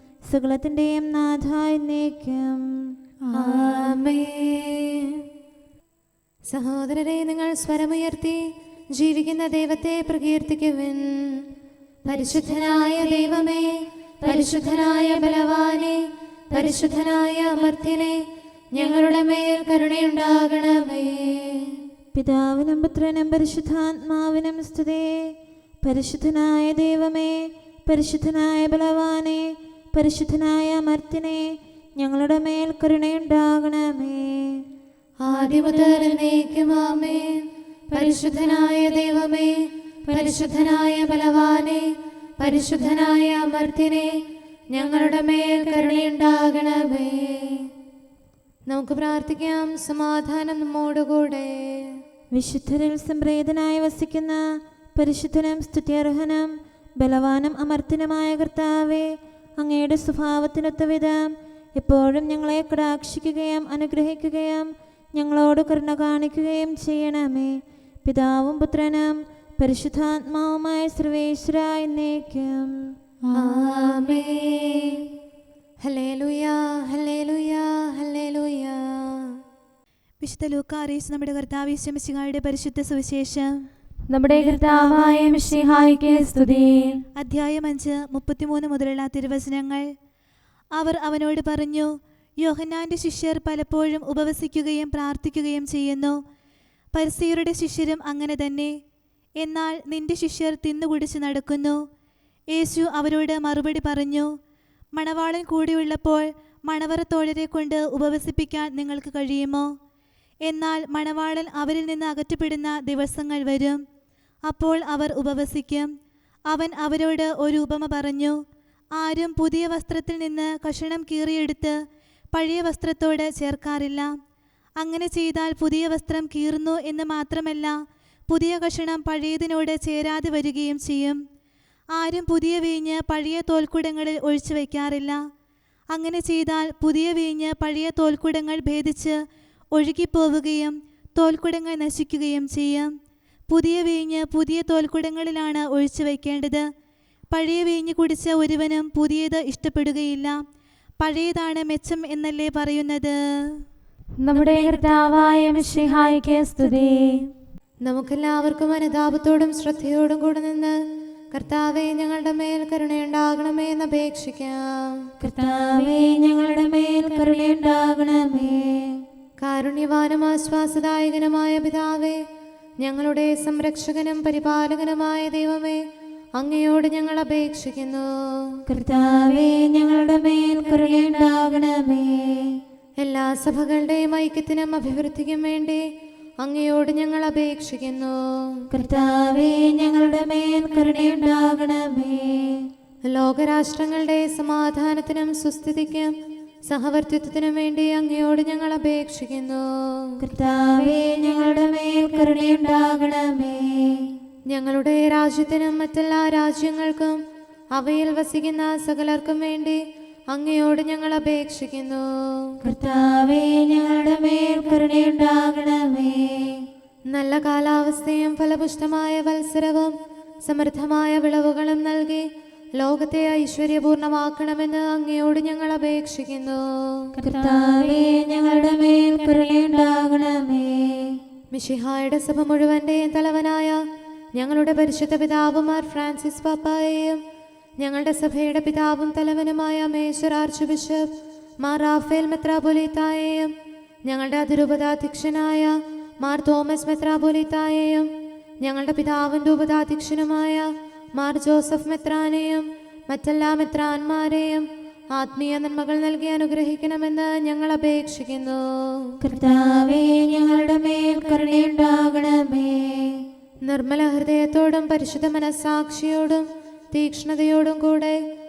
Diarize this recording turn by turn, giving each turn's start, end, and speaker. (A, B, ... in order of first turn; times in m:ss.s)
0:00.3-0:02.6 A
0:03.2-0:03.6 B
0:03.3-0:05.2 C
0:06.5-0:08.4 C
0:08.9-0:11.4 C
0:12.0-0:13.7 C
0:14.2-0:16.0 C
0:16.5-0:18.2 C
0:18.7-0:21.8 C
0:22.1-0:25.3 A
0:25.8-0:34.6 A
0:35.2-0:39.5 C
0:40.1-0:41.8 C
0:42.4-0:44.1 C
0:44.7-0:47.7 C
0:48.7-0:52.0 C
0:52.3-0:54.4 A
0:54.9-0:59.1 A
0:59.6-1:12.7 A
1:13.2-1:13.5 B
1:13.3-1:15.1 C
1:15.8-1:19.4 C
1:20.2-1:23.6 D
1:24.1-1:27.0 B
1:24.3-1:24.8 D
1:27.2-1:29.8 D
1:30.8-1:36.2 D
1:36.9-1:38.8 D
1:39.4-1:41.8 D
1:42.5-1:44.3 D
1:44.9-1:49.7 D
1:50.4-1:53.8 D
1:54.5-1:55.9 D
1:56.5-1:58.4 D
1:59.0-2:01.8 D
2:02.3-2:04.1 D
2:04.8-2:07.8 D
2:08.3-2:11.2 D
2:11.9-2:15.2 D
2:15.9-2:19.2 D
2:19.7-2:22.9 D
2:23.5-2:26.6 D
2:27.3-2:30.4 D
2:31.0-2:33.2 D
2:34.2-2:37.3 B
2:37.8-2:40.8 C
2:41.3-2:45.1 C
2:45.2-2:49.0 A
2:49.4-2:52.2 C
2:52.8-2:55.8 C
2:56.4-2:58.6 C
2:58.7-3:02.6 A
3:03.0-3:05.8 C
3:06.4-3:08.6 C
3:08.7-3:12.7 A
3:13.1-3:16.1 C
3:16.7-3:20.2 C
3:20.2-3:24.1 A
3:24.5-3:27.2 C
3:27.7-3:32.6 C
3:32.6-3:36.6 A
3:37.1-3:47.1 C
3:47.2-3:51.2 A
3:51.5-3:53.8 C
3:54.3-3:57.2 C
3:57.8-4:01.1 C
4:01.6-4:03.5 C
4:04.0-4:08.1 C
4:08.6-4:19.1 C
4:19.2-4:23.2 A
4:23.6-4:28.2 C